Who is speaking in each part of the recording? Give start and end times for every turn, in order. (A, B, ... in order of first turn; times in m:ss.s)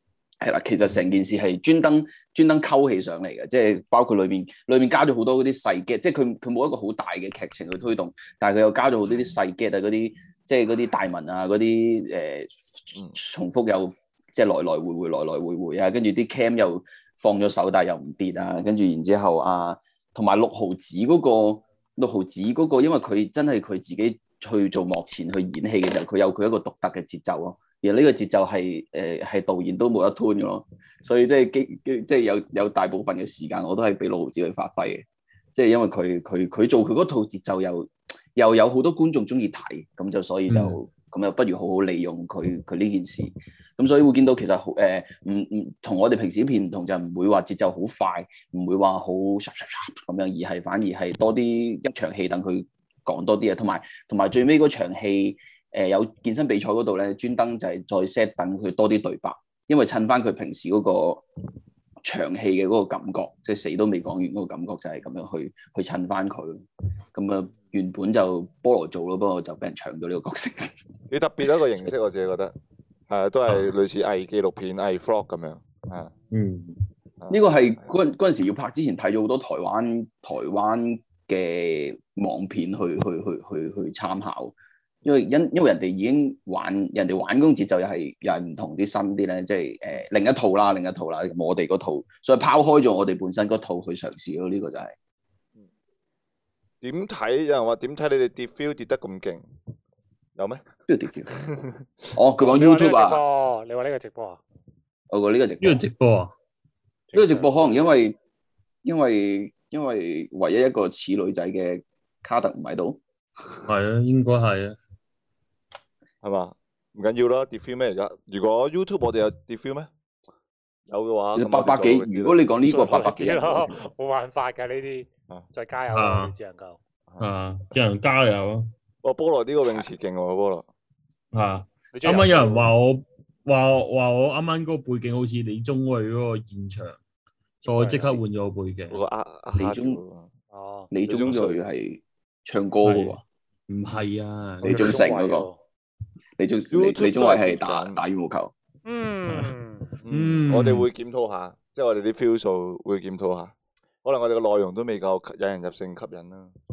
0:00.4-1:01.2 A
0:40.5-0:40.8 B
1:02.0-1:10.8 A
1:11.1-1:12.5 C
1:13.1-1:16.1 C
1:16.3-1:16.8 B
1:17.3-1:34.9 A
1:36.8-1:39.5 C
1:40.4-1:40.6 C
1:40.9-1:41.3 A
1:41.4-1:41.8 C
1:42.1-1:43.2 A
1:42.4-1:44.4 D
1:45.1-1:45.8 A
1:45.6-1:46.3 B
1:47.1-1:48.2 A
1:47.2-1:47.5 D
1:48.8-1:53.0 A
1:53.6-1:54.8 B
1:56.2-1:59.9 C
2:00.9-2:02.4 C
2:01.3-2:03.7 A
2:02.7-2:06.8 D
2:05.9-2:06.3 B
2:07.2-2:08.7 B
2:09.0-2:10.6 C
2:11.3-2:17.0 B
2:11.9-2:12.7 D
2:17.6-2:19.0 B
2:17.7-2:18.2 D
2:18.9-2:20.3 C
2:19.6-2:20.0 A
2:20.5-2:20.9 D
2:20.9-2:23.2 A
2:21.0-2:21.6 C
2:22.8-2:25.0 B
2:24.6-2:25.5 A
2:24.6-2:25.6 D
2:26.4-2:28.5 A
2:26.7-2:28.0 C
2:28.8-2:29.9 D
2:30.0-2:33.5 C
2:30.1-2:30.9 B
2:34.0-2:36.5 C